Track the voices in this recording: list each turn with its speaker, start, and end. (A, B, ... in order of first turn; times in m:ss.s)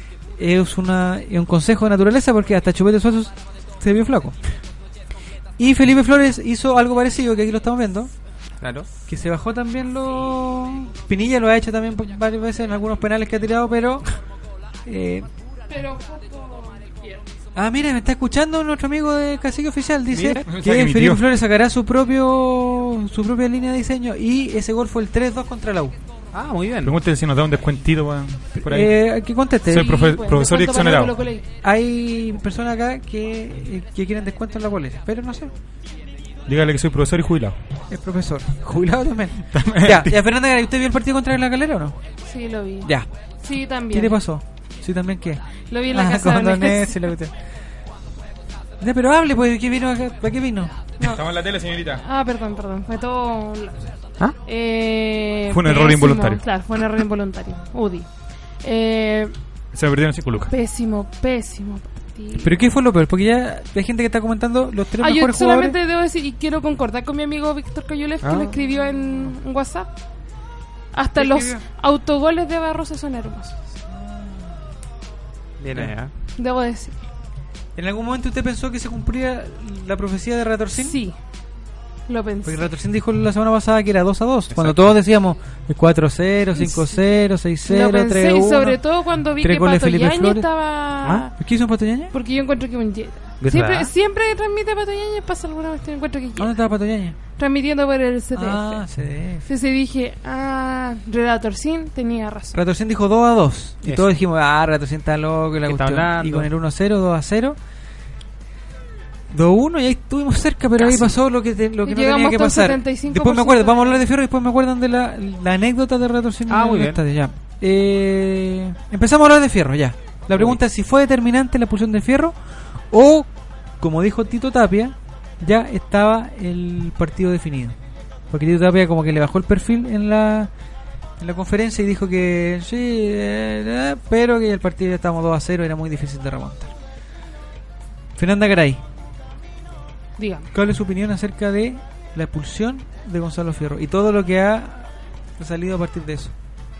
0:00.4-0:04.4 A
0:05.6-0:08.1 A
0:08.6-0:08.9 B
0:09.1-0:14.0 A
0:14.8-0:15.3 A
0:15.7-0:17.2 C
0:17.6-0:25.9 A
0:20.1-0:20.4 B
0:20.4-0:21.2 D
0:26.3-0:26.9 B
0:26.8-0:29.0 D
0:28.5-0:30.0 A
0:29.7-0:31.2 D
0:29.7-0:31.4 C
0:31.6-0:35.5 A
0:36.5-0:37.6 D
0:37.9-0:42.0 A
0:39.5-0:40.2 D
0:42.2-0:44.2 C
0:43.9-0:47.3 A
0:45.7-0:47.1 C
0:48.8-0:50.7 A
0:51.0-0:52.0 D
0:52.0-0:53.9 C
0:54.4-0:58.1 C
0:55.5-0:56.4 D
0:58.6-0:59.3 C
0:59.7-1:00.5 D
1:00.4-1:02.6 C
1:02.4-1:05.8 A
1:05.0-1:09.9 C
1:08.2-1:08.6 B
1:10.9-1:13.6 C
1:11.2-1:11.6 A
1:13.9-1:14.5 A
1:15.6-1:16.1 B
1:16.4-1:17.0 C
1:17.8-1:21.0 A
1:20.7-1:21.2 C
1:22.1-1:22.7 C
1:22.4-1:28.8 A
1:24.5-1:25.0 B
1:26.6-1:27.0 C
1:27.6-1:31.3 C
1:29.4-1:30.4 A
1:31.4-1:32.1 A
1:32.1-1:36.6 C
1:33.4-1:33.9 B
1:36.4-1:37.2 A
1:37.4-1:38.8 C
1:38.3-1:39.4 A
1:39.4-1:42.6 C
1:42.5-1:47.6 A
1:43.8-1:44.1 B
1:45.6-1:46.5 B
1:49.3-2:02.4 A
1:50.8-1:51.1 B
1:51.8-1:54.0 C
1:56.5-1:57.0 B
2:00.3-2:00.6 B
2:02.9-2:03.3 A
2:03.8-2:07.8 A
2:08.3-2:10.5 A
2:11.2-2:16.7 A
2:18.2-2:18.8 A
2:20.2-2:20.5 C
2:20.5-2:26.3 A